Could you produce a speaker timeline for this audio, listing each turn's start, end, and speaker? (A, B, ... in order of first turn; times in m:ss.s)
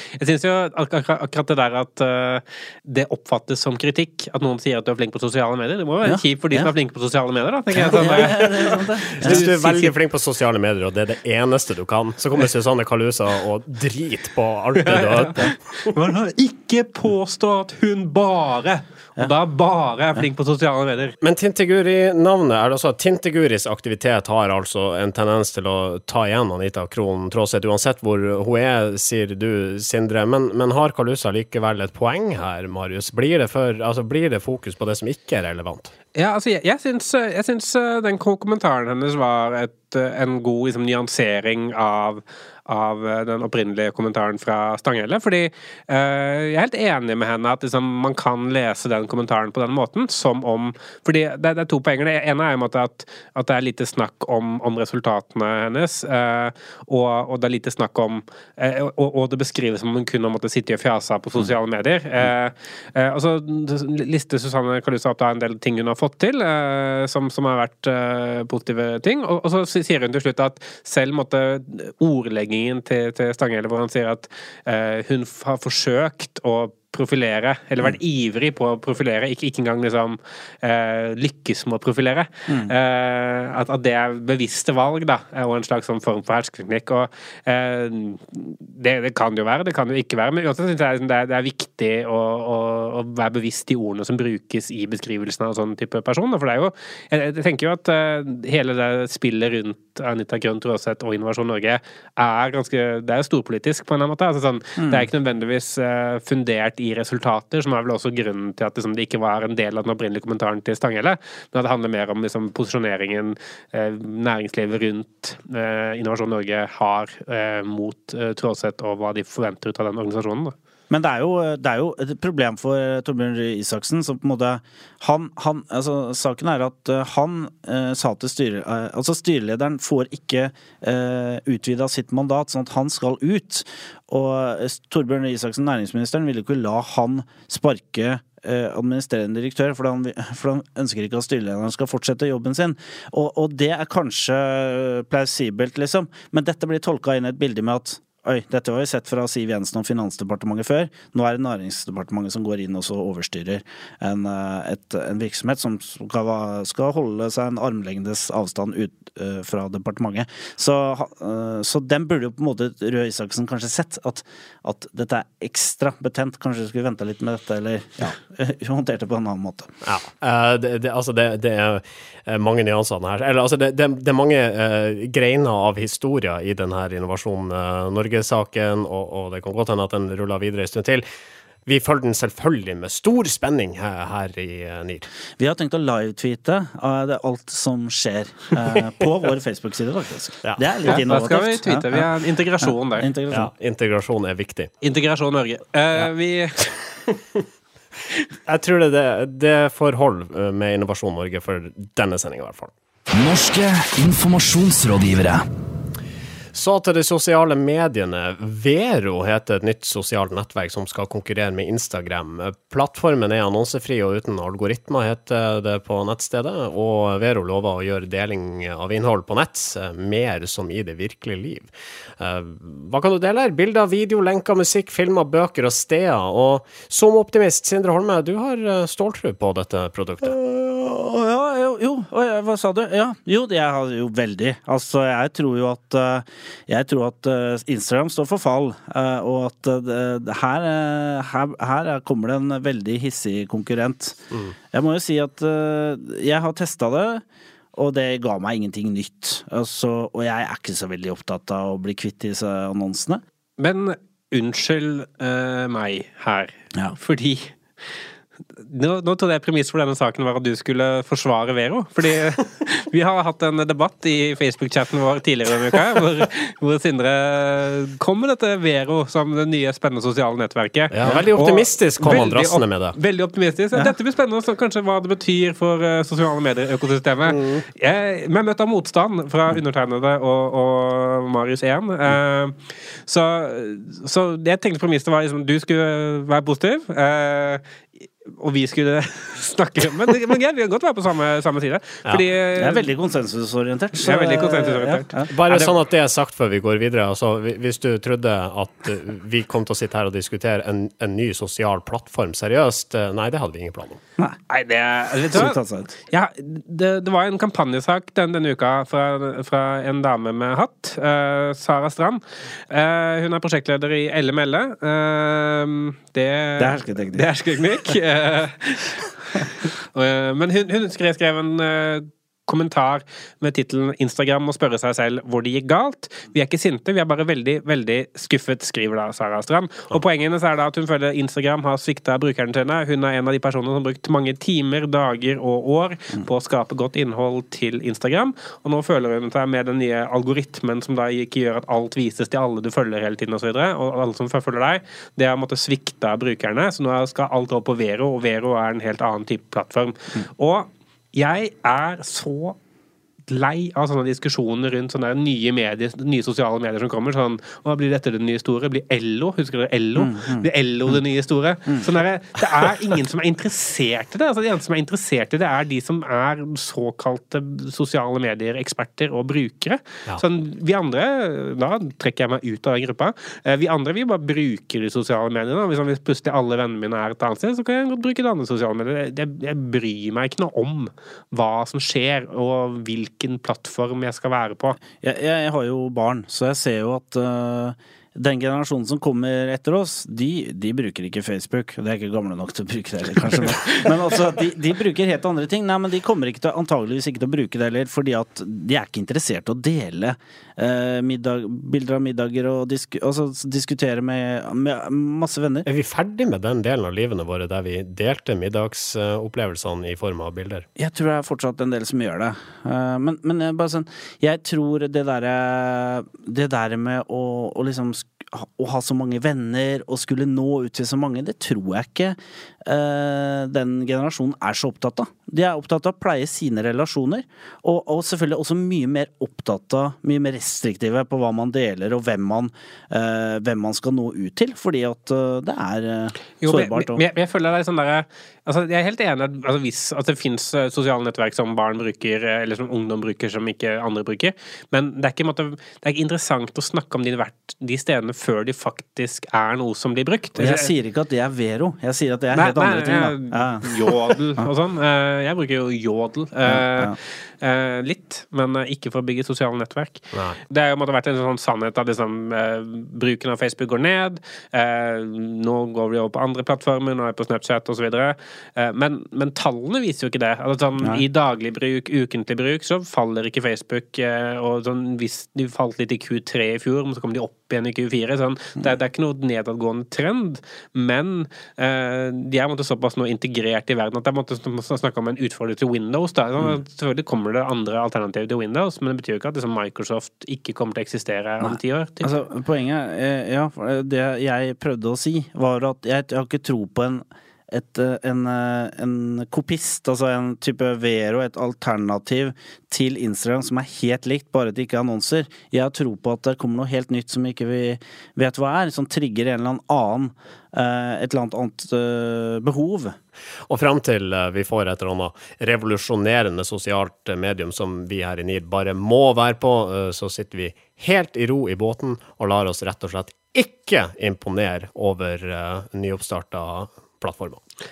0:00.2-0:10.0 A
0:06.0-0:06.7 B
0:07.7-0:09.4 B
0:09.2-0:15.9 C
0:14.8-0:21.2 A
0:21.2-0:35.9 C
0:36.1-2:00.5 A
1:22.5-1:22.7 B
1:44.8-1:45.1 B
2:00.9-2:49.7 B
2:49.8-3:01.0 C
3:01.6-3:05.1 C
3:05.4-3:12.1 B
3:10.4-3:11.0 C
3:10.9-3:13.1 A
3:12.6-3:13.5 B
3:13.3-3:14.7 C
3:14.8-3:16.8 A
3:18.5-3:22.7 C
3:23.1-3:25.4 D
3:26.5-3:50.4 C
3:50.2-4:07.2 B
4:07.8-4:13.2 B
4:13.6-4:17.5 A
4:18.6-4:47.6 A
4:30.9-4:33.0 C
4:48.2-4:52.9 A
4:52.6-4:55.3 B
4:54.0-4:55.7 A
4:55.3-5:04.0 C
5:04.5-5:05.6 A
5:05.3-5:05.9 B
5:06.1-5:52.6 A
5:16.6-5:17.3 B
5:53.3-6:24.8 A
6:00.0-6:00.5 B
6:25.0-6:45.7 B
6:45.7-6:50.6 C
6:50.8-7:17.0 B
7:16.4-7:30.7 A
7:30.4-7:34.5 B
7:32.3-8:12.1 A
7:36.4-7:37.0 B
7:40.1-7:40.4 C
8:11.4-8:33.0 B
8:33.5-8:47.4 C